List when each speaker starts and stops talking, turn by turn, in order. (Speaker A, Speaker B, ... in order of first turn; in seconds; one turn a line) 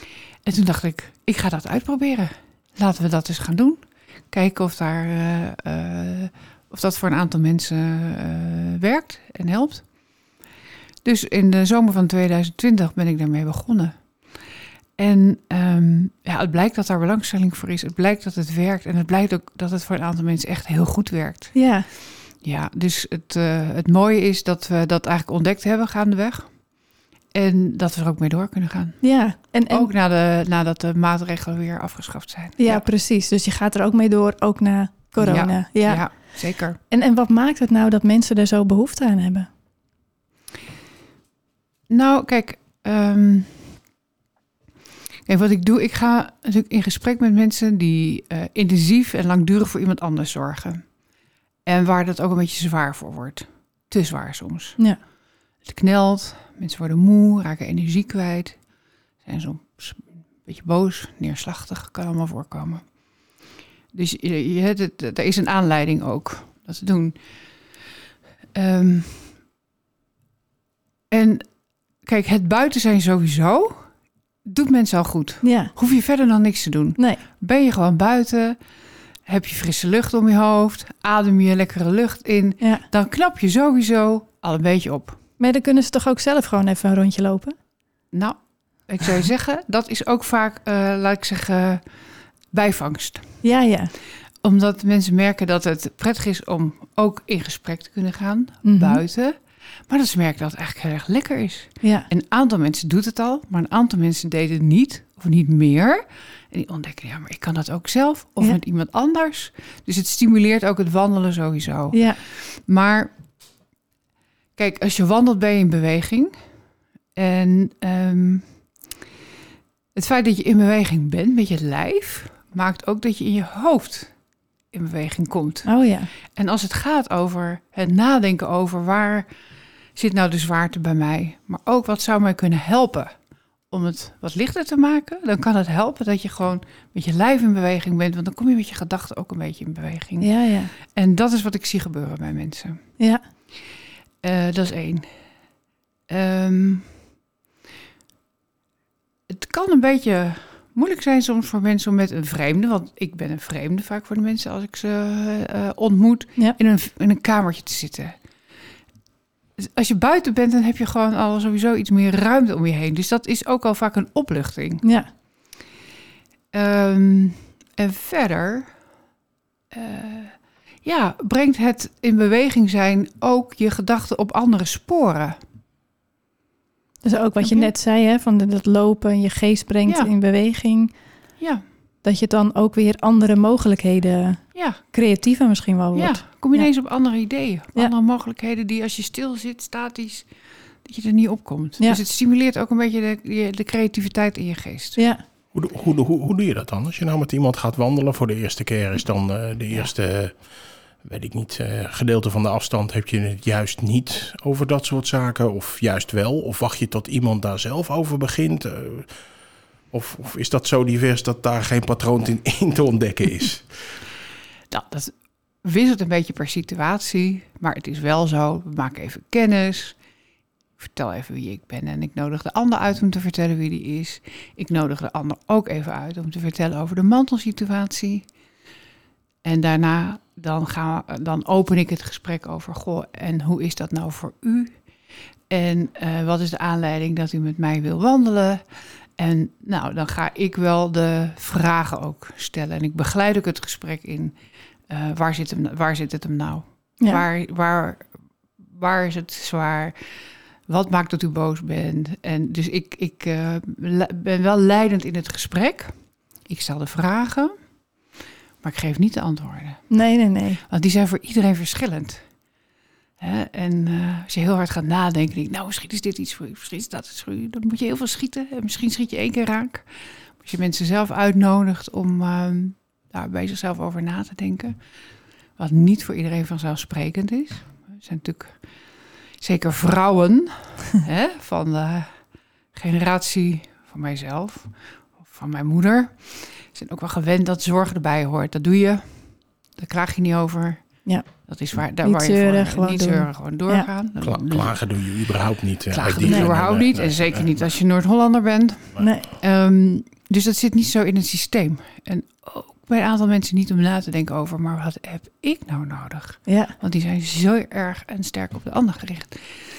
Speaker A: 0.5-9.8
Speaker A: 11.0-13.9
Speaker A: 15.0-21.6
Speaker B: 21.5-21.9
Speaker A: 22.4-26.5
Speaker A: 27.3-29.1
Speaker B: 29.0-29.9
Speaker A: 29.7-32.9
Speaker B: 32.6-36.3
Speaker A: 35.2-36.8
Speaker B: 36.9-39.5
Speaker A: 41.9-43.7
Speaker A: 45.3-50.8
Speaker A: 51.7-54.8
Speaker A: 55.6-58.6
Speaker A: 59.2-62.8
Speaker A: 63.9-67.2
Speaker A: 68.5-69.4
Speaker A: 71.1-71.4
Speaker A: 72.0-73.8
Speaker A: 74.5-78.6
Speaker B: 75.4-75.7
Speaker A: 79.3-85.2
Speaker B: 85.4-87.5
Speaker A: 88.9-91.8
Speaker A: 92.5-93.4
Speaker B: 93.4-93.9
Speaker A: 94.4-99.4
Speaker B: 98.6-99.0
Speaker A: 99.9-113.1
Speaker B: 101.8-102.1
Speaker B: 111.9-112.2
Speaker A: 114.6-116.3
Speaker A: 117.2-118.5
Speaker A: 120.0-124.1
Speaker A: 124.7-125.7
Speaker B: 125.7-126.1
Speaker A: 126.3-129.3
Speaker A: 130.0-133.1
Speaker A: 133.7-142.8
Speaker B: 140.2-140.7
Speaker A: 144.2-145.1
Speaker A: 146.1-146.9
Speaker A: 149.3-158.2
Speaker A: 159.6-164.8
Speaker B: 164.8-165.1
Speaker A: 166.5-168.7
Speaker A: 169.7-175.4
Speaker B: 177.0-180.9
Speaker A: 177.4-177.7
Speaker B: 182.0-186.7
Speaker A: 186.0-190.3
Speaker A: 190.8-195.0
Speaker B: 195.0-195.2
Speaker C: 195.5-200.4
Speaker C: 201.0-209.1
Speaker C: 209.9-213.7
Speaker A: 214.7-215.1
Speaker A: 215.6-220.0
Speaker A: 220.8-228.3
Speaker A: 229.4-234.7
Speaker A: 235.5-238.6
Speaker A: 239.2-244.3
Speaker A: 244.9-248.1
Speaker A: 248.8-250.0
Speaker A: 250.7-255.9
Speaker A: 256.5-257.5
Speaker A: 258.6-259.9
Speaker B: 259.9-260.6
Speaker A: 260.7-262.2
Speaker A: 263.2-269.8
Speaker A: 270.4-274.8
Speaker A: 275.6-278.6
Speaker A: 279.4-282.1
Speaker A: 282.7-284.7
Speaker A: 285.2-289.2
Speaker A: 289.8-290.8
Speaker A: 291.5-294.8
Speaker B: 292.0-293.9
Speaker C: 294.2-297.7
Speaker A: 295.9-309.6
Speaker B: 299.0-299.3
Speaker B: 306.5-306.7